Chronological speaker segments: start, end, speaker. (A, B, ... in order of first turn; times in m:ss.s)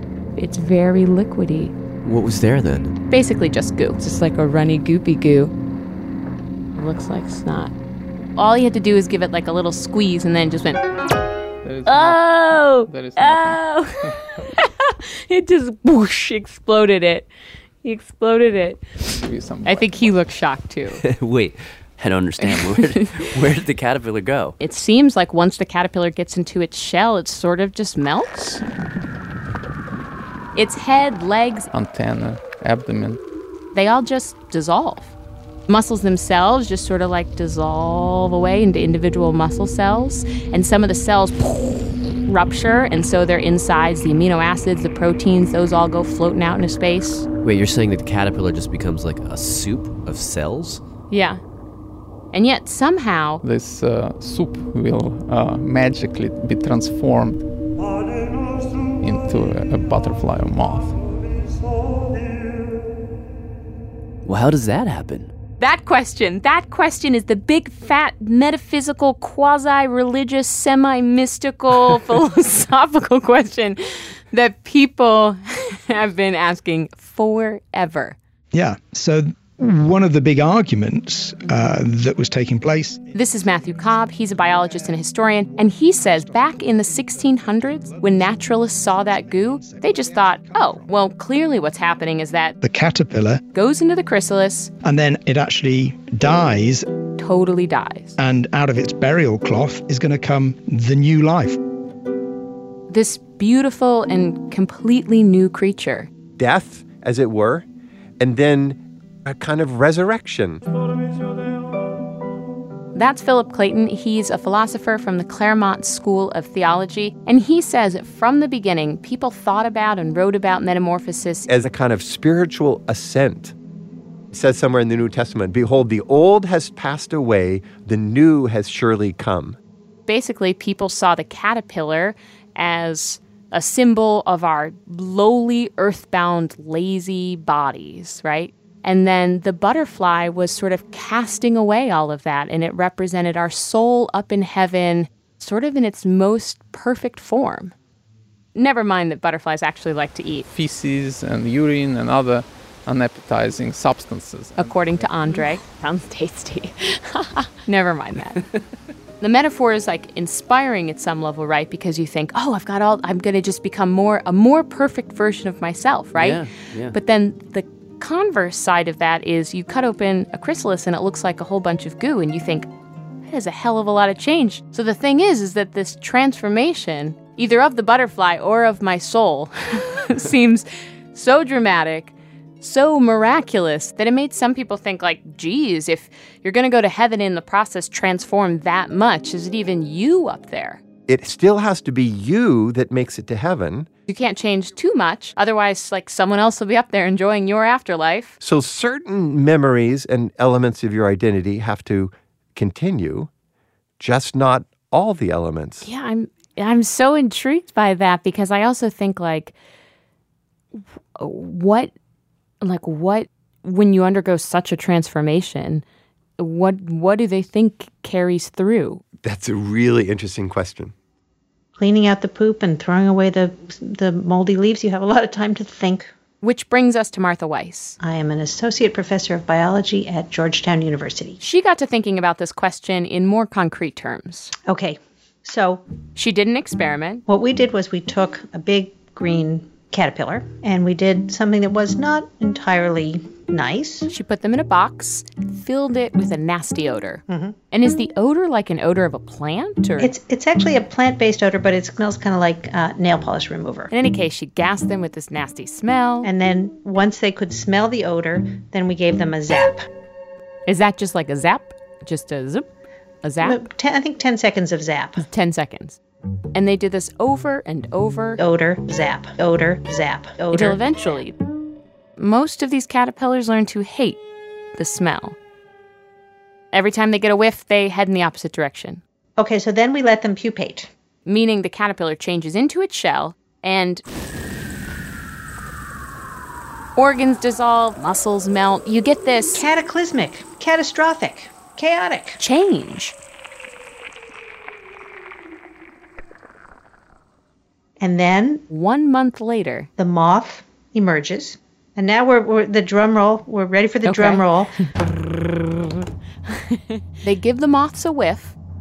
0:00.4-0:01.7 A
0:02.0-0:03.0 B
0:03.1-0:05.5 A
0:06.8-0:07.7 A
0:08.4-0:10.8 A
0:11.6-0:14.1 C
0:11.9-0:14.0 A
0:14.6-0:17.3 A
0:17.8-0:19.1 A
0:19.2-0:20.2 C
0:19.6-0:21.0 A
0:21.0-0:24.6 B
0:22.4-0:23.1 A
0:24.6-0:28.6 A
0:30.6-0:31.7 A
0:31.7-0:33.2 C
0:33.7-0:35.2 A
0:35.7-0:47.3 A
0:47.4-0:50.8 B
0:51.1-0:51.4 A
0:52.3-0:53.4 A
0:53.4-0:57.4 C
0:59.0-1:01.0 C
1:04.2-1:05.3 B
1:05.6-1:13.8 A
1:14.3-1:18.2 A
1:18.5-1:25.0 D
1:23.1-1:32.6 A
1:25.8-1:30.8 D
1:32.6-1:33.4 D
1:33.5-1:34.7 A
1:34.8-1:36.9 D
1:37.2-1:38.1 A
1:38.2-1:41.6 D
1:42.9-1:46.1 A
1:46.4-1:47.6 E
1:48.2-1:50.6 E
1:52.9-2:01.5 A
2:01.5-2:03.5 E
2:04.3-2:09.6 E
2:10.1-2:27.7 A
2:28.6-2:30.5 A
2:30.5-2:35.4 C
2:34.6-2:38.4 A
2:39.2-2:52.7 A
2:46.2-2:47.0 B
2:53.2-3:10.8 A
3:11.1-3:13.9 E
3:14.1-3:18.4 A
3:18.4-3:23.3 E
3:24.0-3:25.8 E
3:25.8-3:29.6 A
3:31.2-3:31.9 A
3:32.6-3:35.8 A
3:36.4-3:39.0 A
3:39.2-3:40.9 E
3:41.8-3:46.1 F
3:46.4-3:48.0 A
3:48.0-3:51.4 F
3:51.4-3:54.5 A
3:54.6-3:55.8 F
3:56.2-3:57.2 A
3:57.3-4:04.1 F
4:04.1-4:10.1 A
4:07.3-4:07.6 F
4:10.0-4:13.9 F
4:13.9-4:16.3 A
4:16.2-4:19.8 F
4:20.7-4:22.7 A
4:23.2-4:23.6 A
4:23.4-4:25.2 F
4:25.2-4:26.0 A
4:26.5-4:28.4 A
4:28.4-4:30.8 F
4:30.5-4:31.4 A
4:32.2-4:34.2 A
4:34.8-4:35.4 A
4:36.7-4:39.0 A
4:39.4-4:40.9 F
4:41.3-4:44.0 A
4:47.0-4:49.7 A
4:49.5-4:52.4 F
4:52.4-4:53.2 A
4:58.0-4:58.6 F
4:58.7-4:59.9 A
5:00.0-5:04.7 F
5:04.1-5:05.5 A
5:06.5-5:08.6 A